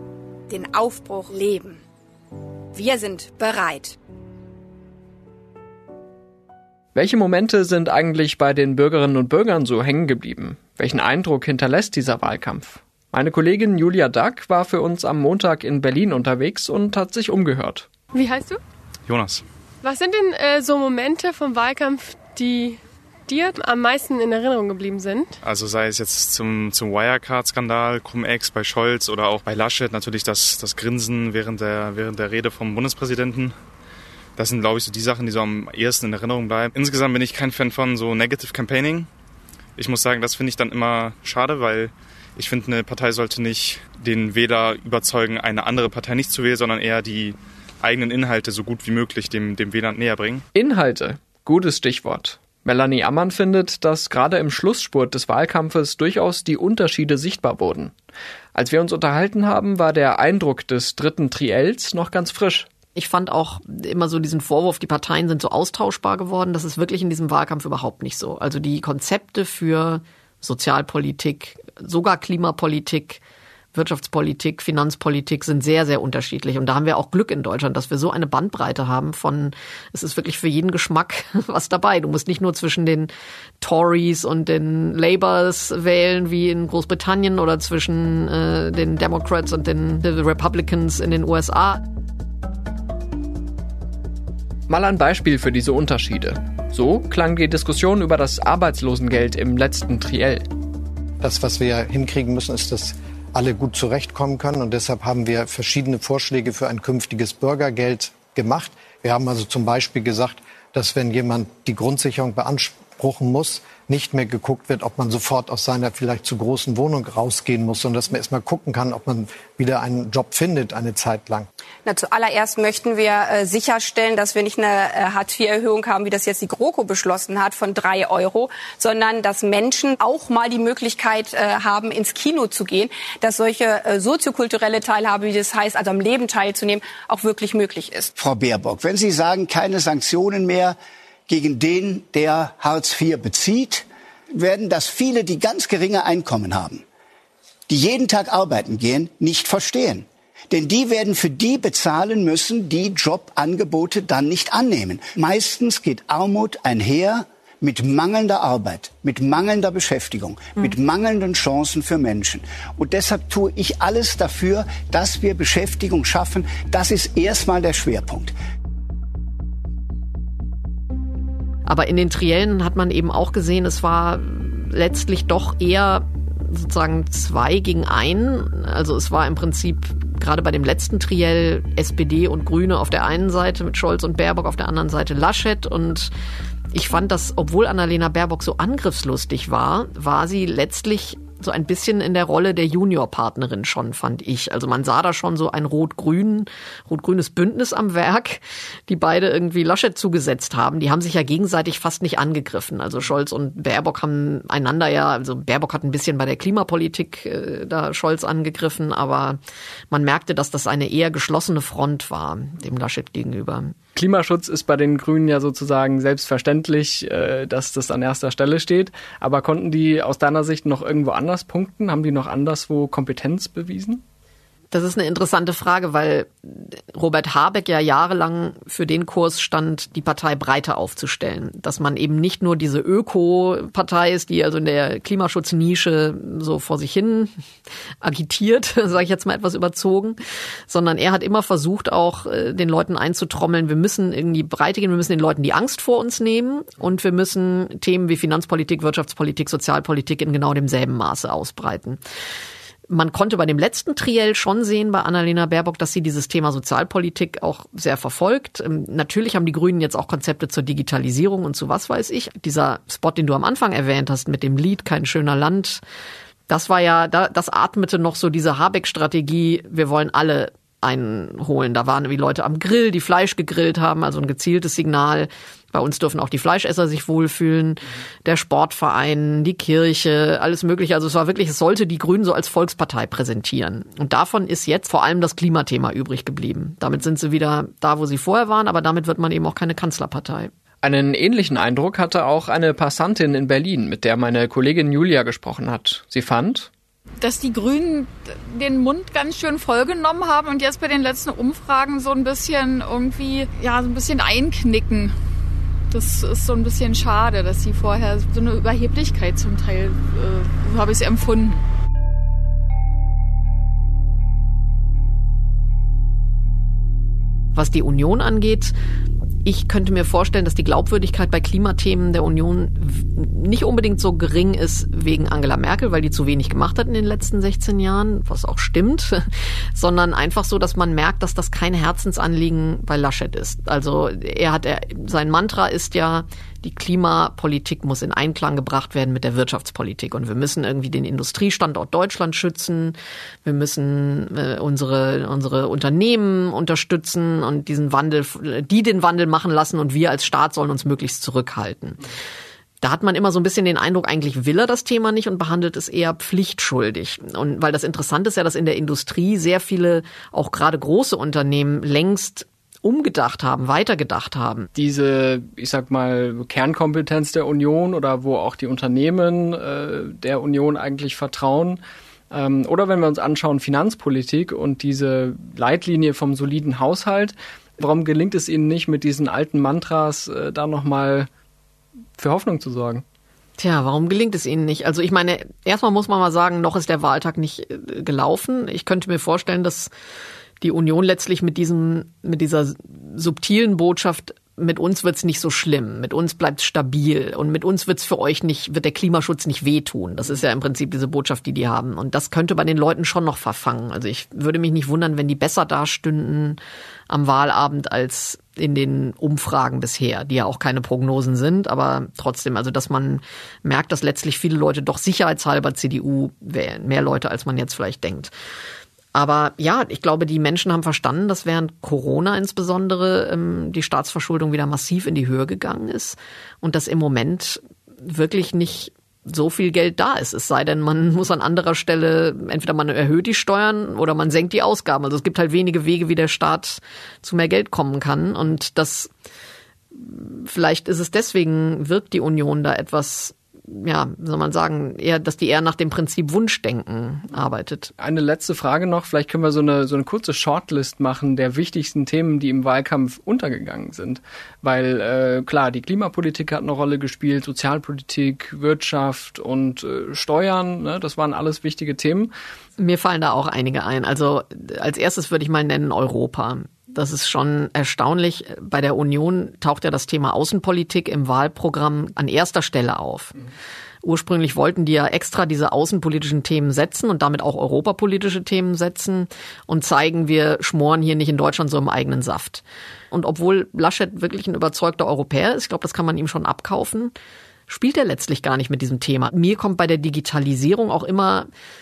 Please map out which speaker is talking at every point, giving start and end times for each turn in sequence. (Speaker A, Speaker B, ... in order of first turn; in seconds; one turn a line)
Speaker A: 0.5-1.8
Speaker A: 2.7-4.0
Speaker B: 6.9-17.9
Speaker C: 18.1-18.6
Speaker D: 19.1-19.4
Speaker C: 19.8-25.4
Speaker D: 25.4-33.5
Speaker D: 34.4-39.1
Speaker D: 39.8-50.4
Speaker B: 50.5-57.9
Speaker B: 58.5-62.7
Speaker E: 63.0-73.2
Speaker E: 73.7-83.1
Speaker E: 83.6-91.8
Speaker B: 94.7-100.5
Speaker F: 101.2-121.5
Speaker A: 121.8-138.1
Speaker G: 138.2-140.8
Speaker G: 141.3-146.8
Speaker G: 147.7-168.3
Speaker E: 171.7-186.1
Speaker E: 186.7-209.4
Speaker E: 209.9-213.7
Speaker B: 213.9-224.0
Speaker E: 224.7-237.3
Speaker E: 238.0-252.0
Speaker E: 252.9-265.8
Speaker E: 266.5-290.5
Speaker B: 290.8-296.7
Speaker H: 297.2-305.1
Speaker H: 305.9-311.6
Speaker E: 317.5-318.7
Speaker E: 319.4-352.0
Speaker E: 352.8-364.7
Speaker B: 364.7-371.8
Speaker B: 372.3-381.3
Speaker B: 382.2-383.0
Speaker E: 383.6-389.9
Speaker E: 390.6-406.6
Speaker E: 407.1-418.3
Speaker E: 419.1-439.1
Speaker E: 439.9-447.9
Speaker B: 448.0-462.3
Speaker E: 462.8-473.4
Speaker E: 474.0-487.1
Speaker E: 487.7-491.5